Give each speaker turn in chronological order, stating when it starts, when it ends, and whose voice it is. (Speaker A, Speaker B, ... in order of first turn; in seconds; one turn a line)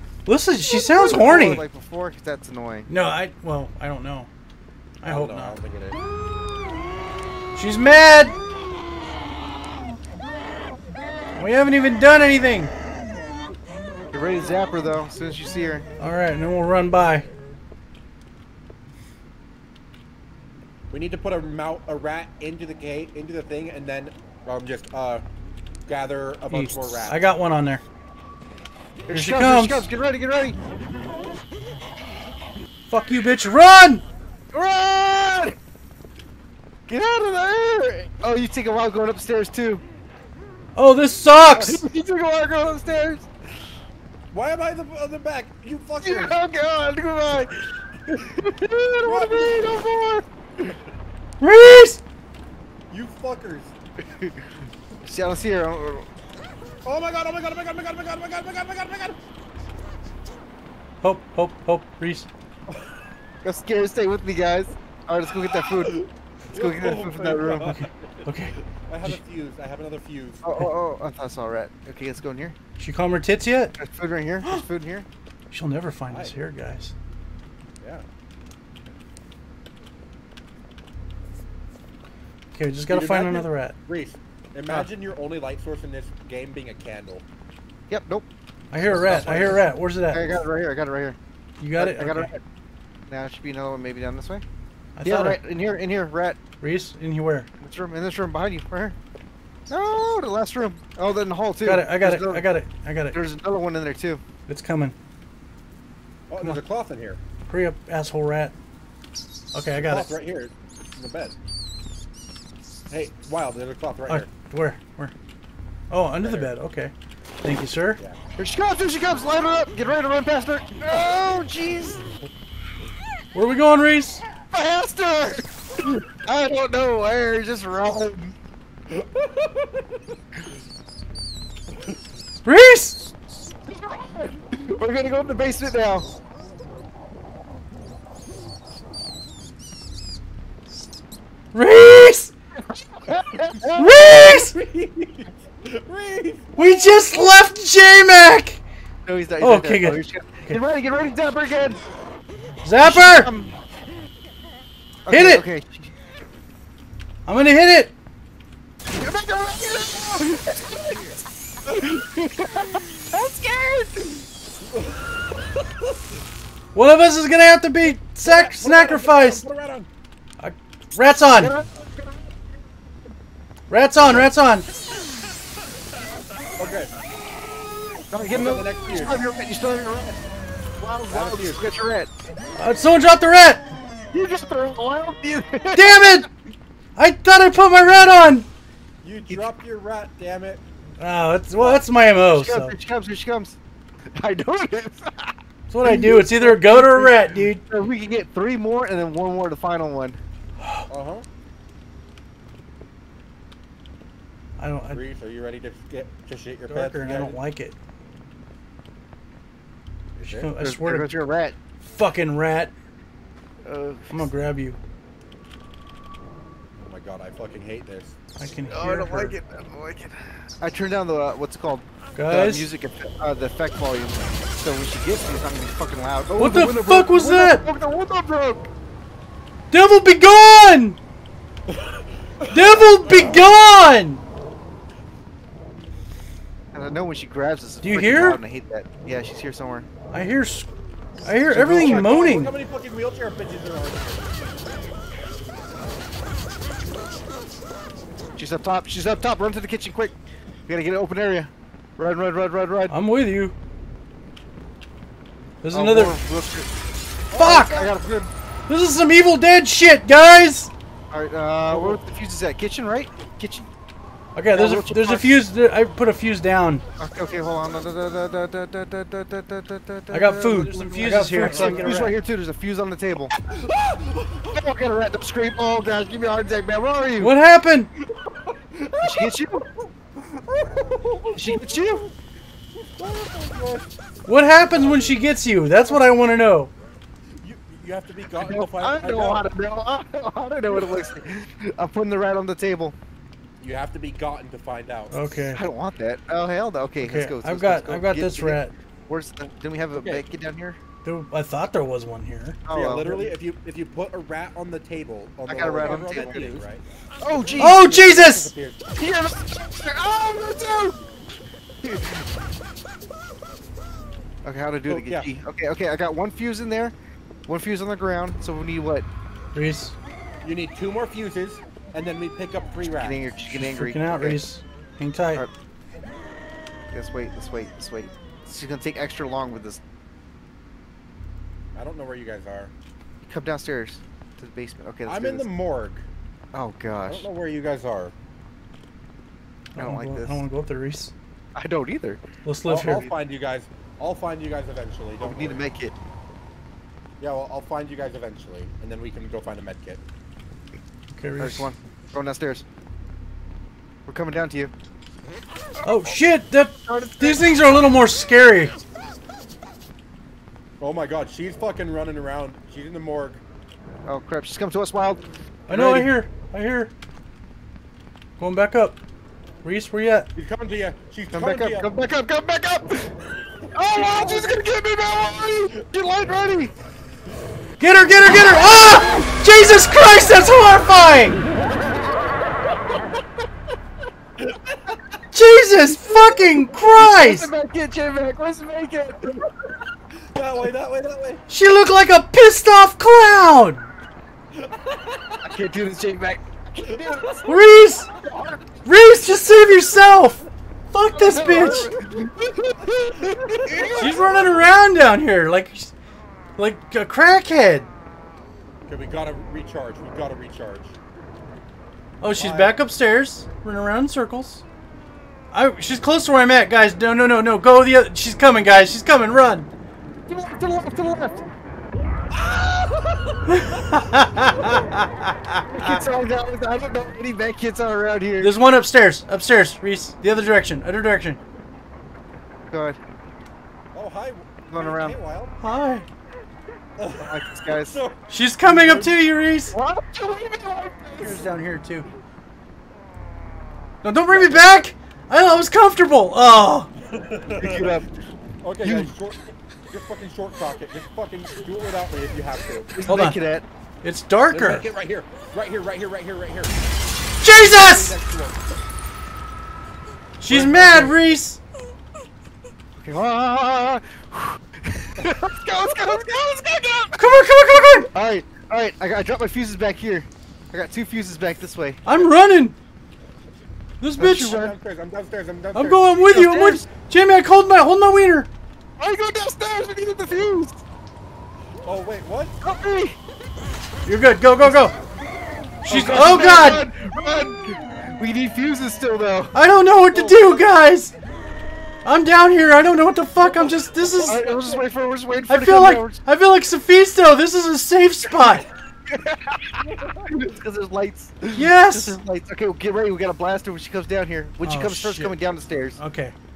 Speaker A: 0.3-1.6
Speaker B: 0.7-2.9
Speaker A: 2.9-4.3
Speaker A: 5.0-5.6
Speaker C: 5.0-6.0
Speaker A: 7.5-8.4
Speaker A: 11.4-12.7
Speaker B: 14.1-15.9
Speaker A: 16.0-17.3
Speaker C: 20.9-25.2
Speaker C: 25.9-27.2
Speaker A: 26.5-27.8
Speaker B: 29.1-30.6
Speaker A: 29.1-29.9
Speaker A: 32.9-34.0
Speaker B: 34.5-35.6
Speaker B: 36.9-39.8
Speaker A: 40.8-41.8
Speaker B: 41.5-43.3
Speaker C: 44.3-46.4
Speaker B: 46.0-50.7
Speaker C: 49.0-49.7
Speaker A: 51.4-52.0
Speaker C: 52.9-53.7
Speaker B: 54.1-54.4
Speaker B: 55.1-56.1
Speaker C: 56.9-59.2
Speaker A: 61.0-62.3
Speaker B: 63.4-66.0
Speaker C: 65.7-68.2
Speaker B: 66.5-67.7
Speaker A: 67.7-69.2
Speaker C: 68.9-70.4
Speaker B: 70.4-72.6
Speaker A: 72.8-73.8
Speaker B: 73.8-75.1
Speaker A: 75.5-76.9
Speaker C: 76.1-76.4
Speaker A: 82.5-83.8
Speaker C: 82.9-87.2
Speaker B: 87.9-88.3
Speaker A: 88.7-90.4
Speaker B: 88.8-91.2
Speaker A: 91.6-92.3
Speaker B: 91.8-92.4
Speaker B: 93.1-94.4
Speaker A: 95.0-95.4
Speaker B: 95.0-96.4
Speaker A: 96.6-97.5
Speaker B: 97.6-99.0
Speaker B: 99.7-102.5
Speaker A: 101.7-103.2
Speaker B: 103.1-104.2
Speaker A: 104.5-105.0
Speaker C: 106.3-107.2
Speaker A: 107.5-108.5
Speaker A: 109.5-110.1
Speaker C: 109.8-111.4
Speaker C: 112.9-114.3
Speaker A: 114.1-115.1
Speaker A: 115.9-118.0
Speaker C: 116.2-116.5
Speaker B: 118.4-122.0
Speaker A: 123.3-124.2
Speaker B: 124.5-128.3
Speaker C: 128.9-130.0
Speaker A: 132.4-133.0
Speaker B: 133.7-136.1
Speaker A: 141.5-142.3
Speaker B: 142.7-144.0
Speaker A: 143.7-144.6
Speaker C: 144.0-146.7
Speaker A: 146.6-148.6
Speaker B: 149.1-151.8
Speaker A: 149.4-150.6
Speaker A: 152.6-153.3
Speaker B: 152.8-153.6
Speaker B: 155.1-155.9
Speaker A: 155.1-155.4
Speaker A: 157.3-157.9
Speaker B: 158.9-161.1
Speaker B: 161.7-164.1
Speaker C: 164.7-165.7
Speaker A: 166.7-169.4
Speaker C: 168.2-169.9
Speaker A: 170.4-171.5
Speaker B: 171.4-172.2
Speaker A: 173.7-174.7
Speaker C: 176.6-176.9
Speaker B: 178.1-180.2
Speaker C: 178.3-179.2
Speaker B: 180.8-182.1
Speaker C: 181.1-181.7
Speaker A: 182.6-183.6
Speaker B: 184.1-186.2
Speaker A: 185.7-186.3
Speaker A: 187.0-188.5
Speaker C: 189.0-190.6
Speaker A: 191.0-192.8
Speaker C: 191.6-191.8
Speaker B: 192.3-193.6
Speaker B: 194.2-200.2
Speaker A: 195.7-197.6
Speaker A: 200.6-200.9
Speaker C: 200.9-201.3
Speaker A: 204.6-205.0
Speaker C: 204.9-207.4
Speaker A: 206.7-207.8
Speaker C: 210.2-210.5
Speaker A: 210.3-211.1
Speaker B: 210.6-211.6
Speaker A: 211.8-212.7
Speaker B: 213.6-214.3
Speaker A: 214.1-214.8
Speaker C: 216.8-218.2
Speaker A: 218.4-219.4
Speaker B: 218.7-228.7
Speaker A: 222.2-222.7
Speaker A: 226.4-227.7
Speaker A: 229.7-231.0
Speaker C: 231.7-233.4
Speaker A: 232.5-234.2
Speaker B: 236.7-239.9
Speaker A: 237.8-238.4
Speaker A: 240.1-240.7
Speaker A: 241.2-242.5
Speaker B: 241.5-242.1
Speaker C: 241.7-244.3
Speaker B: 248.4-250.1
Speaker B: 250.7-253.0
Speaker A: 252.9-253.5
Speaker A: 255.6-256.2
Speaker B: 255.7-256.7
Speaker C: 257.3-258.3
Speaker B: 257.4-258.3
Speaker A: 257.4-257.9
Speaker A: 258.7-260.7
Speaker B: 261.1-263.7
Speaker C: 261.7-262.0
Speaker A: 264.4-266.8
Speaker B: 264.5-265.4
Speaker B: 267.0-273.3
Speaker A: 270.1-272.2
Speaker C: 270.6-272.0
Speaker C: 273.4-274.6
Speaker B: 274.5-277.3
Speaker A: 277.2-277.9
Speaker C: 278.1-279.9
Speaker B: 279.0-279.7
Speaker C: 280.4-282.1
Speaker B: 281.4-282.1
Speaker C: 282.8-283.9
Speaker A: 284.3-286.7
Speaker C: 284.7-285.2
Speaker C: 287.4-289.4
Speaker B: 288.4-293.0
Speaker C: 290.7-291.1
Speaker C: 293.6-295.2
Speaker A: 295.1-295.6
Speaker B: 295.6-300.8
Speaker A: 297.0-298.7
Speaker C: 300.0-300.2
Speaker A: 301.1-302.6
Speaker B: 302.6-303.3
Speaker C: 302.7-306.8
Speaker B: 305.5-306.6
Speaker B: 307.2-307.9
Speaker C: 307.5-308.9
Speaker A: 307.6-308.5
Speaker B: 309.0-311.0
Speaker B: 311.8-312.3
Speaker B: 314.4-316.9
Speaker C: 314.9-315.3
Speaker B: 317.5-319.1
Speaker A: 319.5-319.9
Speaker C: 320.4-323.3
Speaker B: 322.9-324.4
Speaker A: 323.5-325.4
Speaker B: 326.9-329.8
Speaker C: 331.7-332.7
Speaker B: 333.2-335.5
Speaker C: 335.1-336.1
Speaker B: 336.5-337.3
Speaker C: 337.1-338.1
Speaker B: 339.8-340.4
Speaker A: 339.8-341.1
Speaker B: 341.6-342.2
Speaker A: 342.4-343.1
Speaker C: 342.7-345.6
Speaker B: 345.2-345.9
Speaker C: 347.2-350.0
Speaker A: 351.1-351.7
Speaker B: 351.4-352.6
Speaker B: 354.1-354.7
Speaker A: 355.8-358.8
Speaker B: 356.8-357.4
Speaker C: 360.8-363.4
Speaker B: 364.1-366.1
Speaker A: 365.7-366.9
Speaker A: 368.4-369.0
Speaker A: 369.6-370.3
Speaker C: 370.4-371.9
Speaker B: 371.3-373.1
Speaker C: 373.7-374.6
Speaker B: 373.7-376.7
Speaker A: 377.8-381.4
Speaker B: 378.7-379.3
Speaker C: 384.4-385.0
Speaker A: 385.3-387.5
Speaker B: 385.8-389.5
Speaker C: 390.3-391.4
Speaker A: 391.5-393.9
Speaker C: 394.6-395.5
Speaker B: 395.4-398.6
Speaker C: 397.1-397.4
Speaker A: 397.4-398.1
Speaker A: 398.8-401.9
Speaker B: 401.1-404.3
Speaker C: 403.3-404.6
Speaker A: 404.0-405.9
Speaker A: 406.6-407.9
Speaker C: 408.9-411.0
Speaker A: 412.2-414.6
Speaker C: 412.4-412.8
Speaker A: 415.5-419.7
Speaker B: 420.3-421.5
Speaker C: 422.3-424.0
Speaker A: 423.5-426.1
Speaker B: 425.7-428.5
Speaker A: 428.4-431.4
Speaker B: 432.7-433.0
Speaker C: 433.9-435.5
Speaker B: 434.7-435.2
Speaker A: 435.6-436.1
Speaker C: 437.0-439.2
Speaker B: 437.2-438.0
Speaker A: 438.3-439.7
Speaker B: 439.7-441.5
Speaker A: 441.2-442.1
Speaker A: 444.0-446.9
Speaker C: 444.3-444.7
Speaker C: 447.1-448.0
Speaker B: 447.6-448.1
Speaker C: 448.6-452.9
Speaker B: 448.8-449.1
Speaker B: 452.9-453.7
Speaker A: 453.1-453.4
Speaker A: 454.0-454.9
Speaker C: 454.5-456.8
Speaker A: 457.4-458.1
Speaker C: 457.4-458.8
Speaker A: 460.4-461.6
Speaker B: 460.5-461.2
Speaker B: 463.0-467.2
Speaker A: 467.2-468.1
Speaker B: 468.1-472.0
Speaker A: 472.1-472.8
Speaker C: 472.1-472.3
Speaker A: 474.0-474.6
Speaker B: 474.2-474.8
Speaker C: 474.4-476.0
Speaker A: 475.8-478.5
Speaker B: 476.3-476.9
Speaker B: 479.0-480.8
Speaker C: 481.8-482.6
Speaker B: 482.6-483.2
Speaker A: 484.1-484.9
Speaker A: 485.9-486.8
Speaker B: 485.9-489.6
Speaker A: 489.5-491.1
Speaker B: 490.1-490.6
Speaker A: 492.1-494.5
Speaker C: 493.4-494.9
Speaker B: 494.2-496.2
Speaker A: 495.5-498.7
Speaker B: 498.3-506.0
Speaker C: 499.8-500.3
Speaker A: 501.6-502.2
Speaker A: 504.6-505.4
Speaker A: 506.0-506.4